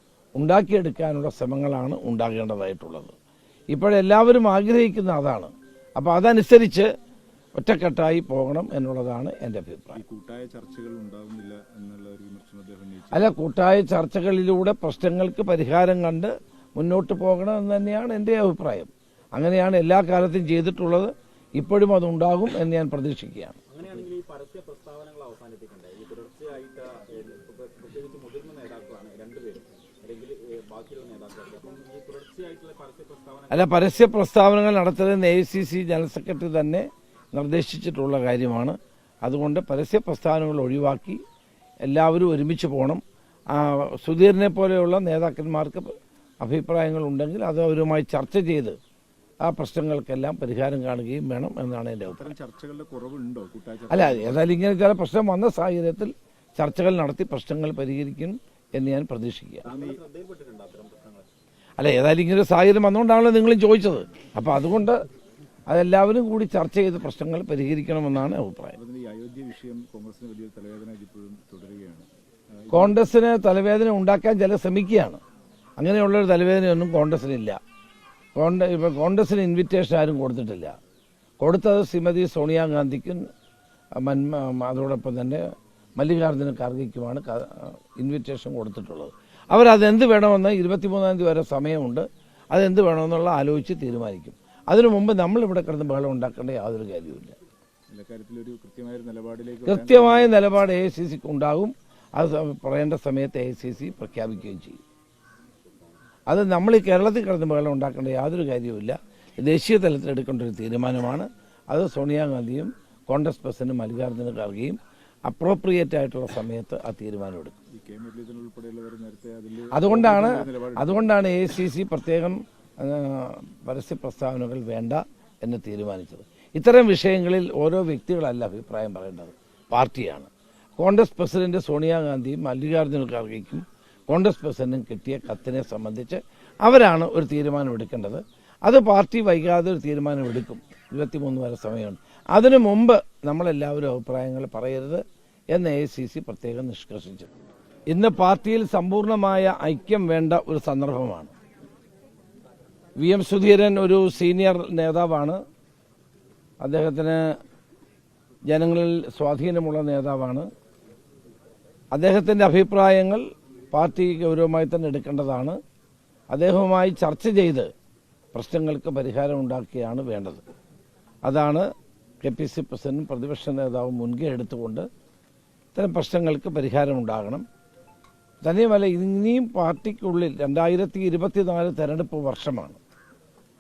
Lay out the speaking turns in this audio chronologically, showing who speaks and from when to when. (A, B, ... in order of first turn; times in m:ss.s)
0:00.4-0:03.1 A
0:03.7-0:06.9 A
0:07.6-0:10.0 A
0:09.9-0:13.3 B
0:13.1-0:23.6 A
0:23.7-0:33.8 C
0:33.5-0:41.2 A
0:41.8-0:43.0 A
0:43.5-0:48.8 A
0:49.4-0:52.3 A
0:52.1-0:54.6 B
0:53.9-0:59.7 A
0:59.6-1:01.3 C
0:59.7-1:00.0 B
1:01.8-1:05.0 A
1:05.7-1:08.8 A
1:08.8-1:12.1 B
1:12.6-1:13.1 B
1:12.7-1:15.2 A
1:15.8-1:17.6 A
1:18.4-1:20.8 A
1:21.4-1:23.3 A
1:24.0-1:37.4 A
1:37.9-1:40.5 B
1:39.7-1:44.8 A
1:46.3-1:57.6 A
1:57.7-2:01.1 B
1:59.7-2:27.3 A
2:27.9-2:31.3 A
2:33.0-2:35.4 A
2:36.6-2:37.3 A
2:38.5-2:40.5 A
2:41.9-2:45.6 A
2:46.3-2:47.7 A
2:48.3-2:50.4 A
2:51.2-2:51.7 A
2:52.2-2:54.9 A
2:55.8-2:57.4 A
2:58.4-3:02.8 A